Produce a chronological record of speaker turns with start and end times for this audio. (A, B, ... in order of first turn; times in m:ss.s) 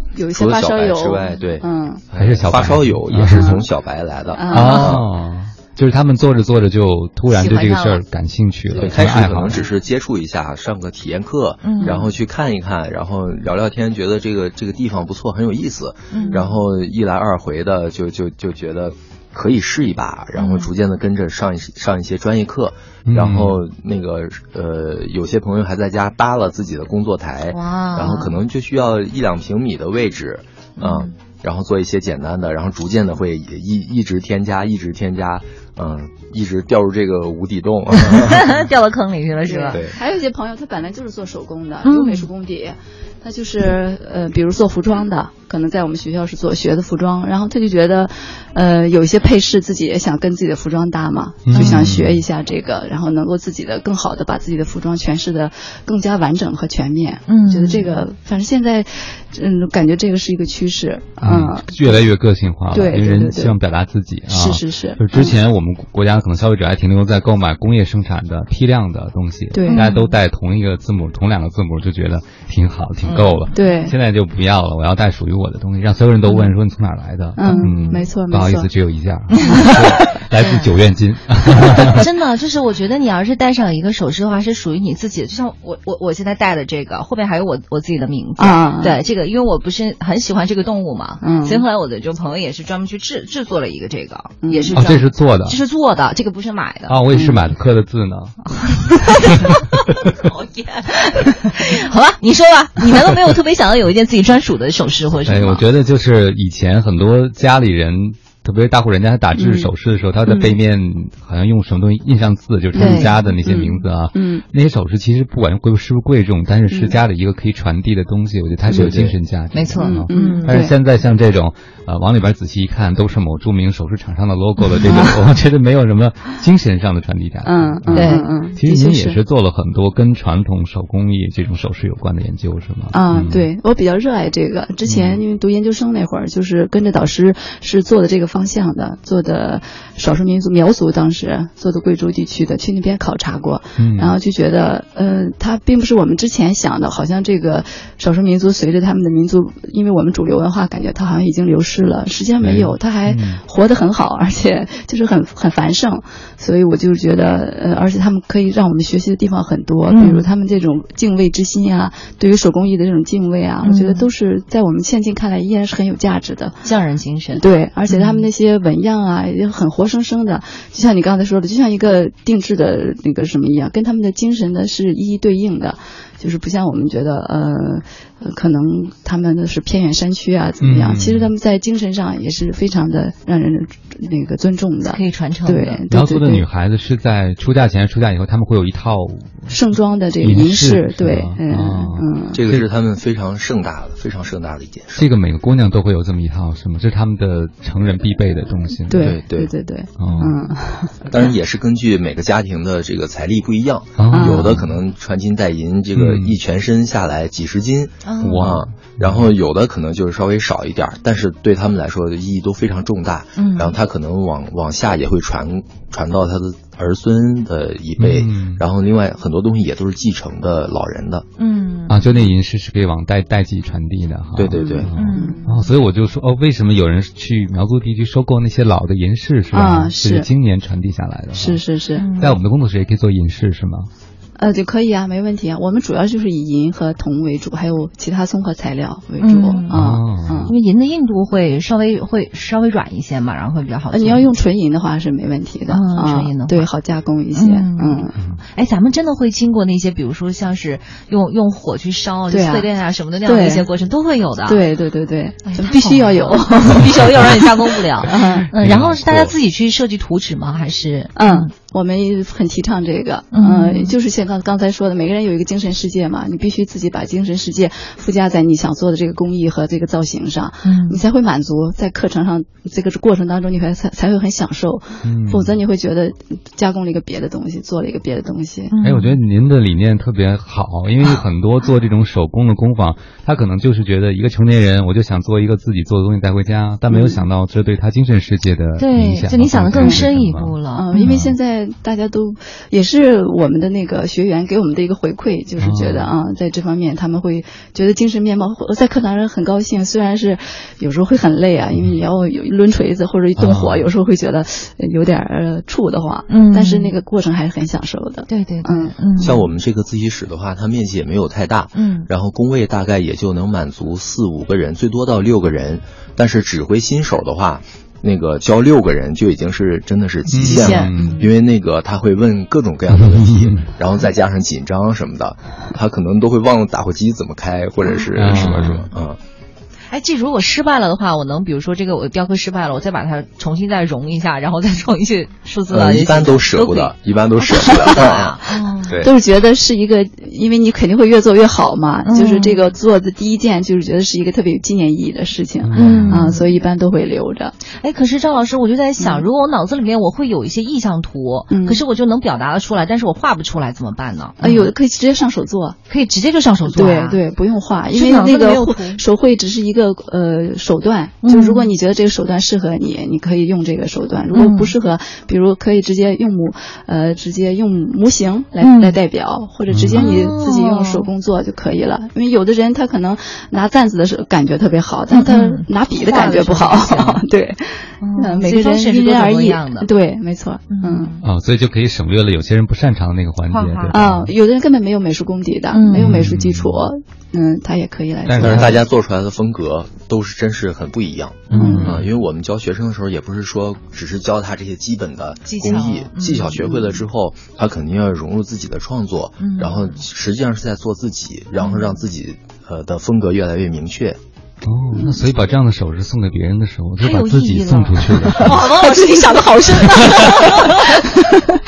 0:00.2-0:02.0 A
0:00.3-0:05.1 B
0:02.2-0:03.6 C
0:03.3-0:03.6 A
0:04.3-0:04.9 A
0:04.5-0:09.6 C
0:07.3-0:08.0 D
0:08.7-0:38.6 B
0:11.6-0:12.0 D
0:16.1-0:16.6 D
0:20.4-0:20.7 D
0:23.1-0:23.6 C
0:27.5-0:28.3 D
0:30.8-0:31.1 D
0:38.0-0:39.8 D
0:39.4-1:02.1 A
0:39.7-0:40.0 B
0:41.8-0:42.3 D
0:51.5-0:52.2 C
0:57.3-0:57.9 D
1:01.2-1:22.0 C
1:02.7-1:03.6 A
1:04.3-1:05.4 A
1:09.5-1:09.9 A
1:09.7-1:10.1 D
1:13.0-1:13.5 D
1:13.5-1:14.0 A
1:16.3-1:16.5 D
1:17.4-1:18.7 A
1:17.5-1:18.1 D
1:19.3-1:20.7 D
1:21.8-1:37.0 D
1:28.4-1:29.0 A
1:31.2-1:31.6 A
1:34.4-1:34.8 A
1:34.7-1:35.6 C
1:36.9-1:38.6 C
1:37.1-1:37.5 A
1:38.9-1:45.6 D
1:45.3-2:13.5 C
1:49.4-1:49.7 A
1:50.3-1:50.5 A
1:52.7-1:54.4 A
1:52.8-1:53.2 D
1:56.7-1:57.0 A
1:58.7-1:59.2 B
1:59.5-2:00.6 D
1:59.8-2:00.7 A
2:04.8-2:05.1 A
2:07.4-2:09.2 A
2:07.9-2:08.3 D
2:12.9-2:46.6 A
2:14.9-2:15.2 C
2:23.8-2:24.2 C
2:32.4-2:33.4 C
2:39.9-2:40.3 D
2:43.6-2:44.1 D
2:46.6-2:48.2 D
2:47.4-3:06.5 A
3:00.6-3:01.3 C
3:04.8-3:05.8 D
3:05.9-3:09.5 C
3:09.5-3:12.4 A
3:10.2-3:12.6 C
3:12.3-3:15.1 B
3:15.0-3:19.2 C
3:18.9-3:21.0 A
3:19.0-3:19.5 B
3:20.0-3:20.4 C
3:21.1-3:41.3 B
3:24.0-3:24.7 C
3:24.1-3:24.6 A
3:26.0-3:26.4 C
3:28.0-3:28.5 D
3:28.2-3:29.3 C
3:33.4-3:33.8 D
3:38.0-3:38.6 C
3:41.4-3:42.0 D
3:41.9-3:51.6 C
3:44.4-3:44.9 B
3:44.6-3:45.4 D
3:44.7-3:45.5 A
3:49.5-3:50.3 A
3:51.3-3:52.1 A
3:52.0-3:52.4 D
3:52.2-3:53.9 C
3:54.4-4:00.5 A
3:59.2-3:59.8 D
3:59.7-4:00.5 C
4:00.4-4:04.3 D
4:03.9-4:08.2 A
4:05.7-4:06.7 D
4:07.3-4:14.6 D
4:12.3-4:12.7 A
4:13.2-4:13.7 A
4:14.5-4:18.5 A
4:15.4-4:21.5 D
4:18.6-4:19.3 C
4:21.2-4:38.7 A
4:23.3-4:23.9 D
4:30.6-4:31.0 D
4:35.0-4:35.6 C
4:38.7-4:39.2 D
4:38.8-4:51.4 C
4:46.9-4:47.2 A
4:48.8-4:51.1 D
4:49.8-4:50.1 A
4:50.7-5:08.9 A
4:55.6-4:56.1 C
5:03.4-5:03.9 C
5:06.3-5:07.0 D
5:08.3-5:09.5 D
5:09.2-5:29.2 B
5:11.7-5:12.1 D
5:20.3-5:21.3 C
5:20.4-5:21.3 D
5:22.9-5:23.6 C
5:28.2-5:28.9 C
5:29.9-5:36.9 D
5:35.7-5:39.1 B
5:37.5-5:39.0 D
5:39.0-5:47.6 A
5:42.0-5:42.8 D
5:45.6-5:46.4 C
5:45.8-5:46.5 D
5:47.8-5:54.7 D
5:49.0-5:49.3 A
5:51.5-5:51.8 A
5:54.4-5:55.8 A
5:55.9-5:57.2 D
5:56.7-6:21.2 A
5:57.9-5:59.0 D
6:01.2-6:01.7 D
6:04.3-6:04.7 D
6:08.6-6:09.0 D
6:09.7-6:10.2 C
6:10.0-6:11.1 D
6:15.1-6:17.2 D
6:18.0-6:19.9 D
6:20.7-6:21.2 D
6:21.2-6:24.3 C
6:23.5-6:24.0 D
6:23.9-6:28.8 A
6:25.7-6:26.3 D
6:25.9-6:26.8 C
6:28.2-6:28.8 C
6:28.4-6:44.2 B
6:31.5-6:32.1 C
6:31.5-6:32.0 D
6:31.5-6:32.0 A
6:35.5-6:36.5 D
6:36.6-6:37.0 A
6:39.4-6:40.0 D
6:44.6-6:48.6 C
6:45.0-6:45.2 A
6:47.0-6:51.2 D
6:49.4-6:50.5 A